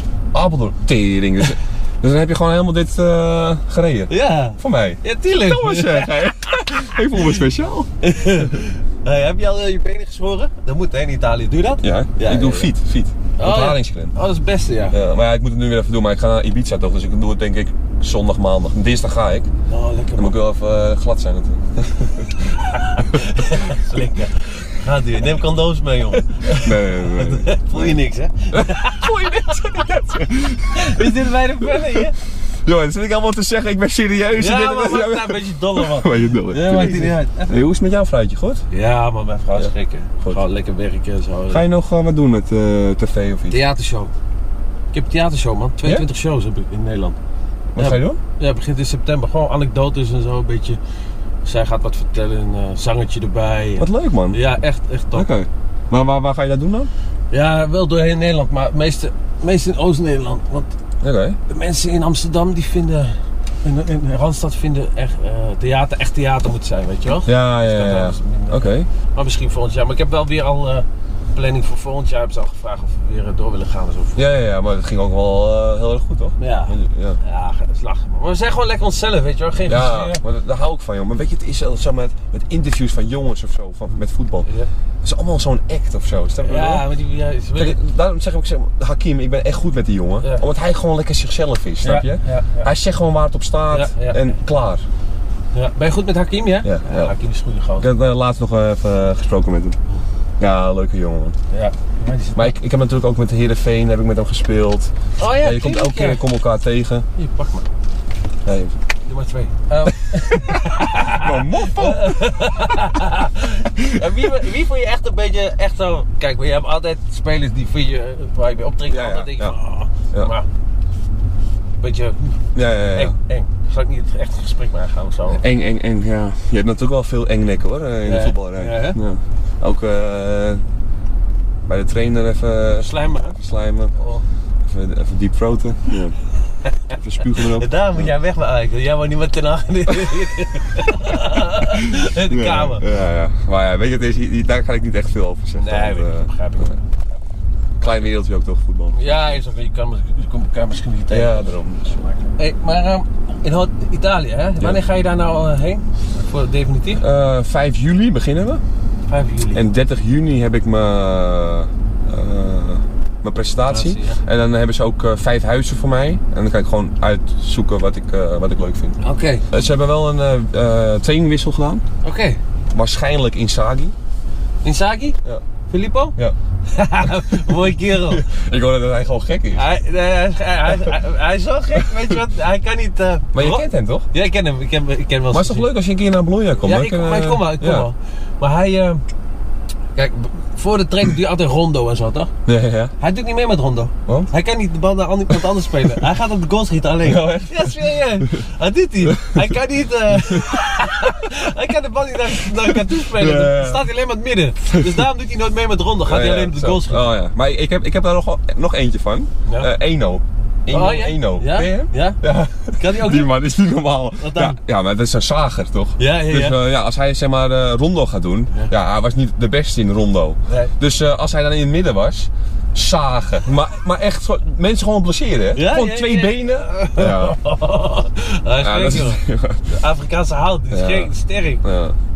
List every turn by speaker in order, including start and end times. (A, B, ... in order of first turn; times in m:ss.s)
0:00.3-0:07.9 A
0:04.1-0:06.2 B
0:06.7-0:07.4 B
0:08.0-0:12.7 B
0:11.8-0:14.1 A
0:13.4-0:15.0 B
0:14.9-0:19.5 A
0:19.7-0:20.4 B
0:20.2-0:22.3 A
0:22.4-0:29.6 B
0:26.5-0:28.0 A
0:28.5-0:32.0 A
0:30.7-0:32.1 B
0:32.6-0:38.6 A
0:34.4-0:37.6 B
0:38.7-0:41.6 B
0:39.5-0:40.4 A
0:41.5-0:43.6 A
0:43.5-0:44.1 B
0:44.9-0:47.2 B
0:47.7-0:48.2 A
0:47.8-0:50.8 B
0:51.4-0:55.3 B
0:53.8-0:54.4 A
0:55.1-0:56.9 A
0:57.3-1:00.7 B
1:01.0-1:01.4 A
1:01.5-1:14.2 B
1:07.1-1:08.9 A
1:14.2-1:17.2 A
1:16.4-1:20.2 B
1:19.7-1:24.5 A
1:25.0-1:26.8 A
1:26.4-1:27.8 B
1:27.5-1:34.8 A
1:31.8-1:32.7 B
1:33.7-1:34.3 B
1:35.5-1:37.9 B
1:36.6-1:37.1 A
1:37.8-1:39.8 A
1:40.4-1:41.3 A
1:41.5-1:42.5 B
1:42.4-1:47.0 A
1:45.2-1:46.2 B
1:47.2-1:47.6 B
1:48.4-1:48.8 A
1:49.0-2:00.4 B
1:50.4-1:52.2 A
1:58.9-1:59.6 A
2:01.8-2:05.4 B
2:02.5-2:03.1 A
2:05.3-2:10.6 A
2:08.0-2:09.0 B
2:11.7-2:13.9 A
2:12.8-2:13.4 B
2:14.0-2:14.2 B
2:14.6-2:16.1 A
2:16.9-2:22.8 B
2:17.0-2:18.1 A
2:21.6-2:26.7 A
2:25.6-2:26.8 B
2:27.8-2:29.4 A
2:28.9-2:31.6 B
2:31.1-2:32.1 A
2:32.2-2:37.0 B
2:36.9-2:38.6 A
2:39.1-2:39.7 B
2:39.5-2:49.0 A
2:43.7-2:44.2 B
2:49.0-2:49.4 B
2:49.5-2:51.8 A
2:52.0-2:52.4 B
2:52.7-2:53.9 A
2:54.6-2:55.2 B
2:55.7-2:56.2 B
2:56.7-2:58.2 B
2:57.6-2:59.6 A
2:59.5-3:05.7 B
3:03.3-3:04.1 A
3:05.3-3:07.9 A
3:06.6-3:09.0 B
3:09.9-3:12.3 B
3:12.4-3:12.9 A
3:13.0-3:27.1 B
3:17.0-3:18.2 A
3:19.0-3:19.4 A
3:20.2-3:20.6 A
3:22.8-3:23.8 A
3:26.0-3:47.4 A
3:29.5-3:29.7 B
3:30.7-3:32.2 B
3:32.8-3:33.3 B
3:34.2-3:34.6 B
3:36.0-3:36.6 B
3:40.5-3:40.7 B
3:45.5-3:51.6 B
3:48.6-3:49.7 A
3:50.7-3:51.1 A
3:51.6-3:52.0 A